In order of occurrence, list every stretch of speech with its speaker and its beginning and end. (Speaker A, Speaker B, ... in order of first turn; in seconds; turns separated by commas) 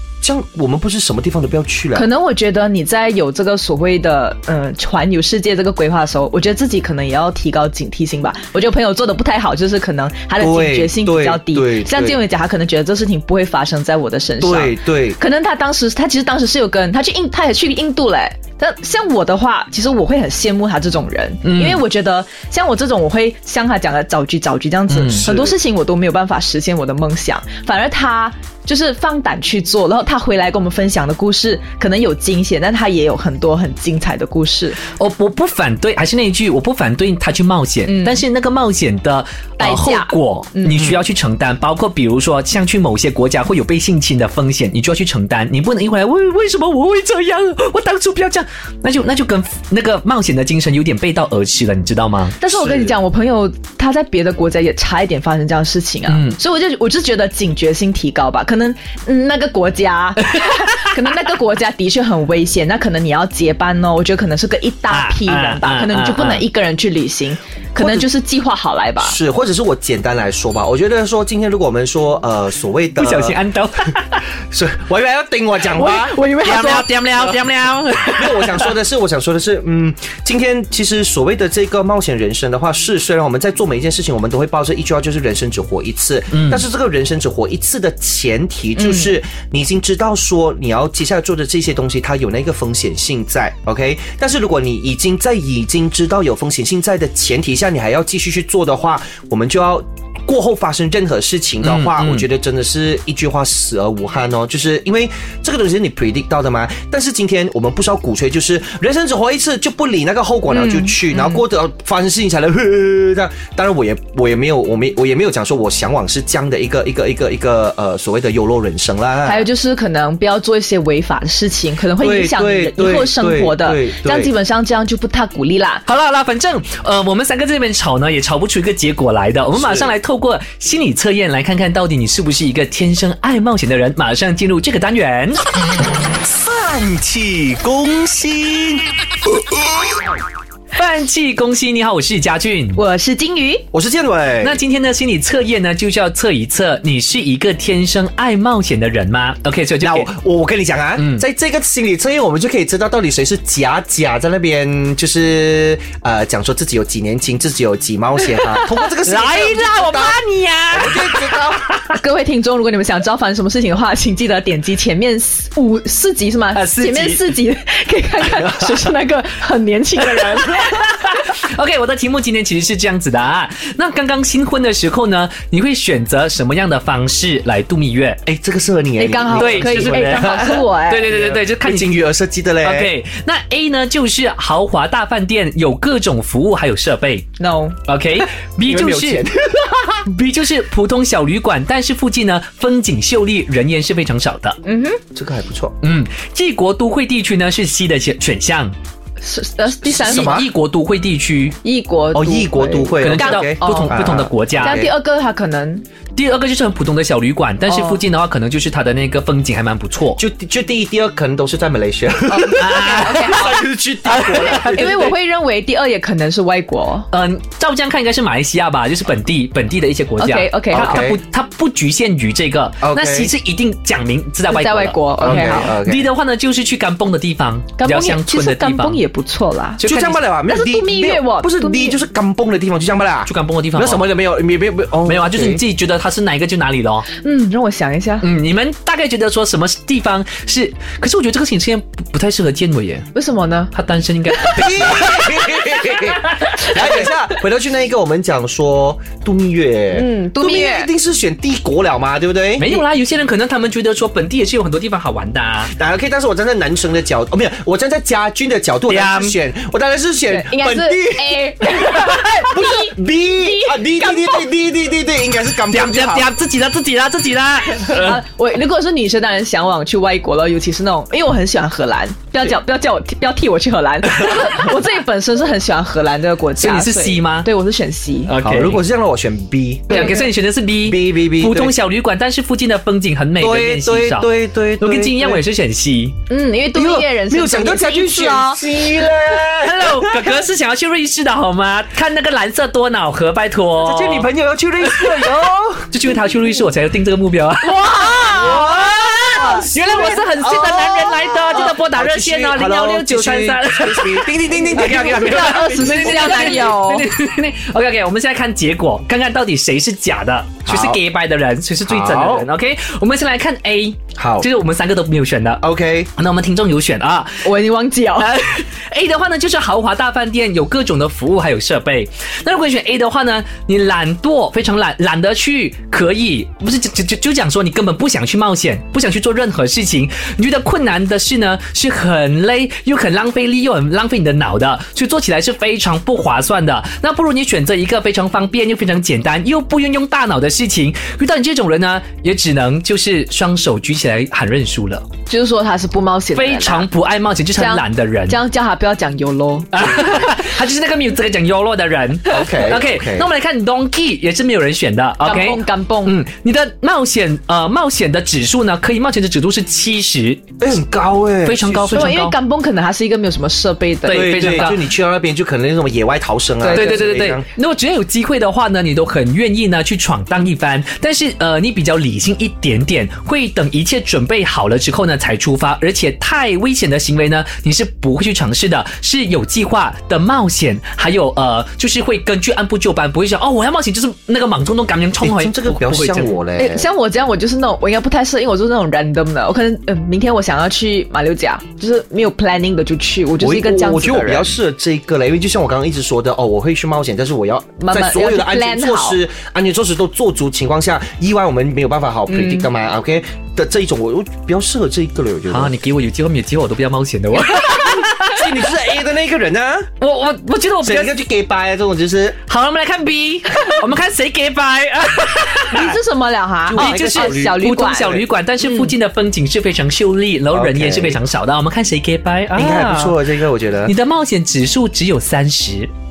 Speaker A: 0.2-2.1, Speaker B: 1.9-34.8, Speaker A: 10.4-12.2, Speaker A: 14.4-15.2, Speaker C: 21.4-21.8, Speaker C: 24.9-25.2, Speaker A: 25.1-25.5, Speaker C: 35.0-52.3, Speaker B: 37.9-38.2, Speaker B: 39.6-40.8, Speaker A: 40.7-41.0, Speaker B: 52.4-69.2, Speaker A: 52.5-52.9, Speaker C: 56.1-56.4, Speaker C: 64.9-66.4, Speaker A: 67.8-68.1, Speaker A: 69.0-73.9, Speaker C: 73.0-74.2, Speaker A: 74.5-76.1, Speaker B: 75.7-76.9, Speaker C: 76.4-78.7, Speaker A: 78.1-119.5, Speaker C: 86.3-86.6, Speaker B: 88.8-89.1, Speaker C: 101.6-102.2, Speaker B: 110.5-111.4, Speaker B: 119.2-125.8, Speaker A: 122.0-124.3, Speaker C: 125.8-135.4, Speaker A: 129.6-129.9, Speaker A: 136.1-140.1, Speaker C: 140.7-142.8, Speaker B: 142.8-143.7, Speaker A: 143.7-144.6, Speaker C: 144.4-150.1, Speaker A: 149.8-160.2, Speaker C: 151.0-151.2, Speaker C: 159.0-161.9, Speaker A: 160.7-161.7, Speaker B: 161.9-171.1, Speaker C: 166.5-167.3, Speaker A: 168.2-168.7, Speaker C: 170.1-178.2, Speaker A: 178.2-182.9, Speaker B: 179.0-181.1, Speaker C: 179.3-181.9, Speaker C: 182.6-187.3, Speaker B: 187.4-187.8, Speaker C: 187.9-189.2, Speaker A: 188.6-190.0, Speaker C: 190.0-194.6, Speaker B: 194.6-195.0, Speaker A: 195.1-195.8, Speaker C: 195.8-198.7, Speaker B: 199.2-200.4, Speaker A: 199.8-200.5, Speaker C: 200.0-201.6, Speaker B: 201.6-205.8, Speaker A: 202.1-204.9, Speaker C: 203.0-204.9, Speaker C: 206.2-210.2, Speaker B: 207.7-208.0, Speaker A: 210.2-215.1, Speaker B: 212.3-213.6, Speaker C: 212.6-213.4, Speaker C: 214.1-215.1, Speaker B: 214.7-217.1, Speaker C: 217.1-229.0, Speaker B: 220.2-221.1, Speaker A: 220.7-221.2, Speaker A: 222.8-223.3, Speaker B: 224.5-225.7, Speaker A: 225.2-226.1, Speaker B: 227.8-229.8, Speaker C: 229.8-230.2, Speaker A: 229.8-235.6, Speaker B: 230.5-232.0, Speaker C: 233.2-234.1, Speaker C: 235.1-237.1, Speaker B: 237.2-238.2, Speaker C: 238.2-243.1, Speaker B: 243.1-243.7, Speaker C: 243.7-245.4, Speaker A: 244.5-252.7, Speaker B: 249.9-250.9, Speaker C: 252.6-255.7, Speaker A: 255.7-266.3, Speaker C: 258.9-259.4, Speaker B: 260.3-264.4, Speaker C: 265.7-268.2, Speaker B: 267.9-278.3, Speaker C: 276.6-277.5, Speaker C: 278.3-278.8, Speaker A: 278.4-280.2, Speaker C: 279.9-286.2, Speaker B: 279.9-280.2, Speaker A: 280.8-281.8, Speaker A: 283.4-285.4, Speaker B: 286.3-288.6, Speaker A: 286.7-290.4, Speaker C: 289.5-294.3, Speaker A: 293.8-295.9, Speaker C: 294.8-295.3, Speaker C: 295.9-315.6, Speaker B: 297.6-298.7, Speaker A: 298.3-306.7, Speaker B: 299.4-299.7, Speaker B: 304.9-307.1, Speaker A: 310.7-311.0, Speaker A: 311.9-312.5, Speaker A: 314.1-314.5, Speaker A: 315.6-316.1, Speaker C: 316.2-317.5, Speaker B: 317.4-318.3, Speaker C: 318.2-345.1, Speaker B: 345.3-346.9, Speaker C: 346.3-348.4, Speaker B: 347.5-350.3, Speaker C: 349.7-360.5, Speaker A: 352.3-353.3, Speaker B: 355.2-356.2, Speaker A: 360.6-362.1, Speaker C: 361.4-362.3, Speaker B: 361.9-364.7, Speaker C: 364.0-364.9, Speaker A: 364.1-367.4, Speaker B: 366.6-367.0, Speaker C: 366.7-386.3, Speaker A: 385.2-386.9, Speaker B: 386.6-394.5, Speaker A: 393.4-405.7, Speaker B: 397.8-399.2, Speaker B: 402.3-402.7, Speaker C: 405.5-408.5, Speaker A: 407.6-409.9, Speaker C: 410.0-411.1, Speaker A: 410.8-412.4, Speaker C: 412.5-416.0, Speaker B: 415.7-418.9, Speaker A: 416.7-417.6, Speaker C: 416.7-423.2, Speaker A: 420.5-421.2, Speaker A: 422.5-423.9, Speaker C: 423.9-425.9